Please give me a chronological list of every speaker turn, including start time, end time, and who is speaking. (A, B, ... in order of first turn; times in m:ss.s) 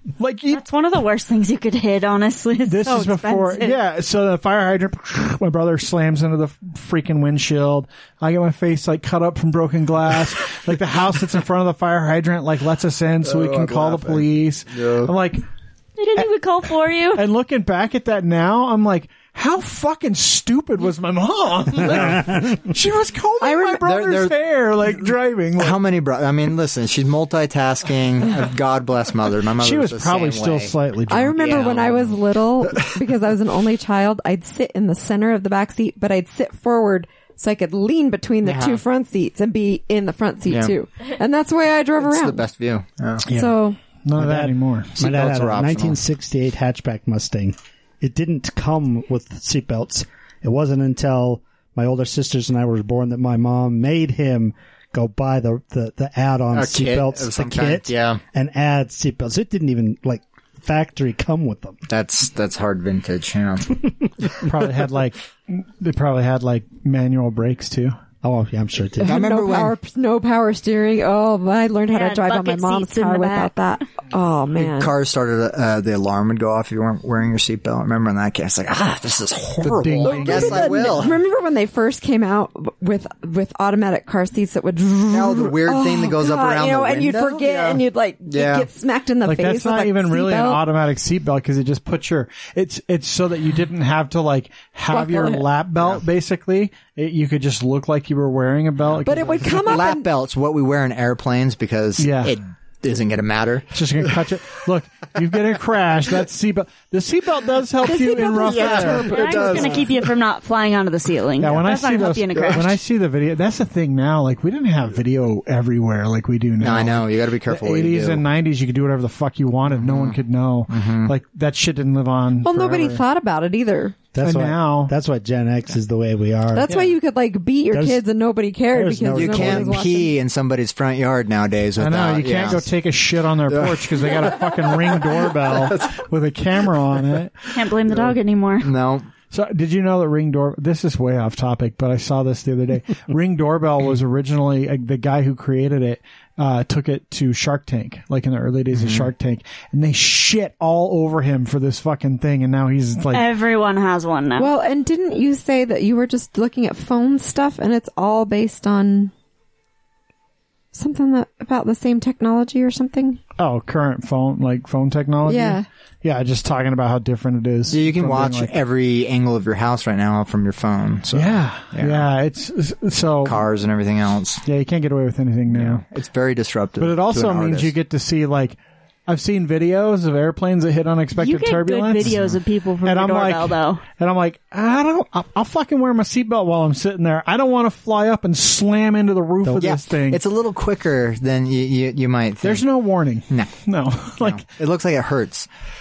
0:00.2-0:00.6 A
0:00.5-0:03.8 B
0:02.6-0:15.4 A
0:13.4-0:14.2 C
0:14.8-0:15.1 C
0:16.0-0:17.2 B
0:17.1-0:25.8 A
0:23.4-0:24.4 C
0:25.6-0:30.8 C
0:29.6-0:31.6 A
0:31.1-0:42.4 D
0:31.3-0:32.2 C
0:38.4-0:38.8 C
0:40.5-0:40.7 C
0:42.0-0:43.3 C
0:43.2-0:45.0 A
0:43.3-0:43.8 D
0:44.1-1:01.8 E
0:45.0-0:46.0 C
0:56.5-0:58.2 C
1:01.9-1:04.5 C
1:04.4-1:08.0 A
1:08.2-1:09.2 E
1:09.0-1:09.8 C
1:09.0-1:14.9 D
1:11.9-1:13.7 B
1:14.6-1:21.2 C
1:19.6-1:21.1 A
1:20.0-1:30.6 D
1:25.1-1:28.7 C
1:29.2-1:39.7 A
1:34.9-1:35.4 D
1:39.0-1:40.1 D
1:39.6-1:44.1 C
1:42.0-1:42.4 A
1:43.7-1:49.4 A
1:47.8-1:49.8 D
1:48.4-1:50.0 C
1:49.0-1:52.7 B
1:51.4-2:03.0 A
1:52.4-1:52.6 C
1:56.6-1:58.2 C
1:59.7-2:01.1 C
2:02.4-2:04.0 D
2:04.1-2:06.7 E
2:04.2-2:04.9 A
2:06.5-2:10.2 D
2:07.7-2:08.0 E
2:08.7-2:09.9 E
2:09.1-2:12.7 C
2:11.8-2:17.4 A
2:13.5-2:16.0 C
2:17.5-2:18.7 B
2:17.9-2:19.1 C
2:19.3-2:33.3 A
2:28.7-2:29.1 C
2:33.1-2:34.5 B
2:34.4-2:39.1 D
2:40.7-2:43.2 D
2:43.4-2:48.5 A
2:45.2-2:45.6 D
2:47.7-2:52.0 C
2:51.1-2:53.4 A
2:53.2-2:54.4 C
2:54.4-2:55.8 A
2:55.5-2:57.7 C
2:56.8-3:02.2 A
3:01.2-3:03.8 B
3:02.0-3:02.4 C
3:02.8-3:10.2 A
3:09.6-3:12.7 C
3:12.4-3:14.4 A
3:14.2-3:15.5 C